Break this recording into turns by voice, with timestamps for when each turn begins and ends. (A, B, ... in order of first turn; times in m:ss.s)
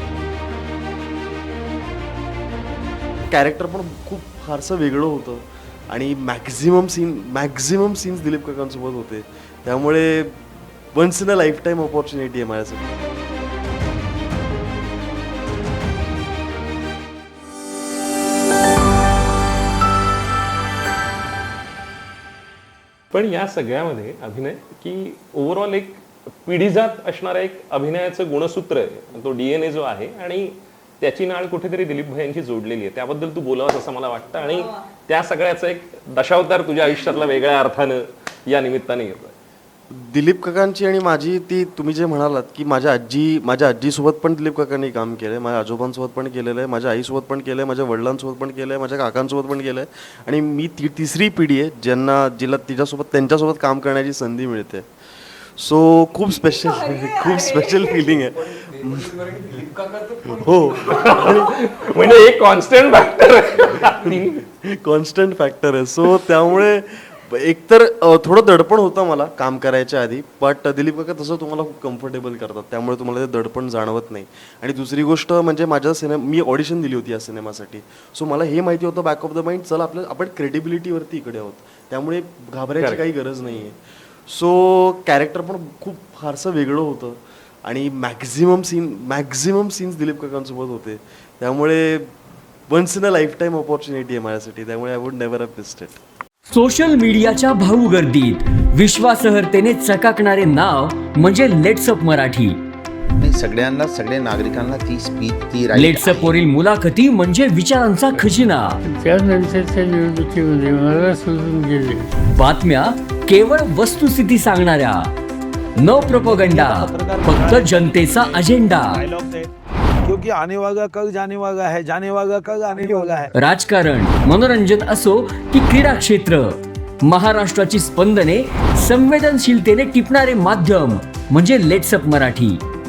0:03.3-0:12.8 A
0:23.1-0:39.3 B
0:39.9-0:54.8 A
0:55.6-1:01.5 A
1:00.8-1:04.4 B
1:04.1-1:23.7 A
1:24.3-1:32.1 A
1:32.7-1:36.0 A
1:36.5-1:42.6 C
1:43.2-1:46.4 D
1:45.7-1:48.8 C
1:48.9-1:52.0 E
1:52.2-1:55.1 C
1:55.8-1:59.0 C
1:55.8-1:59.5 F
2:00.0-2:03.3 F
2:03.3-2:12.6 C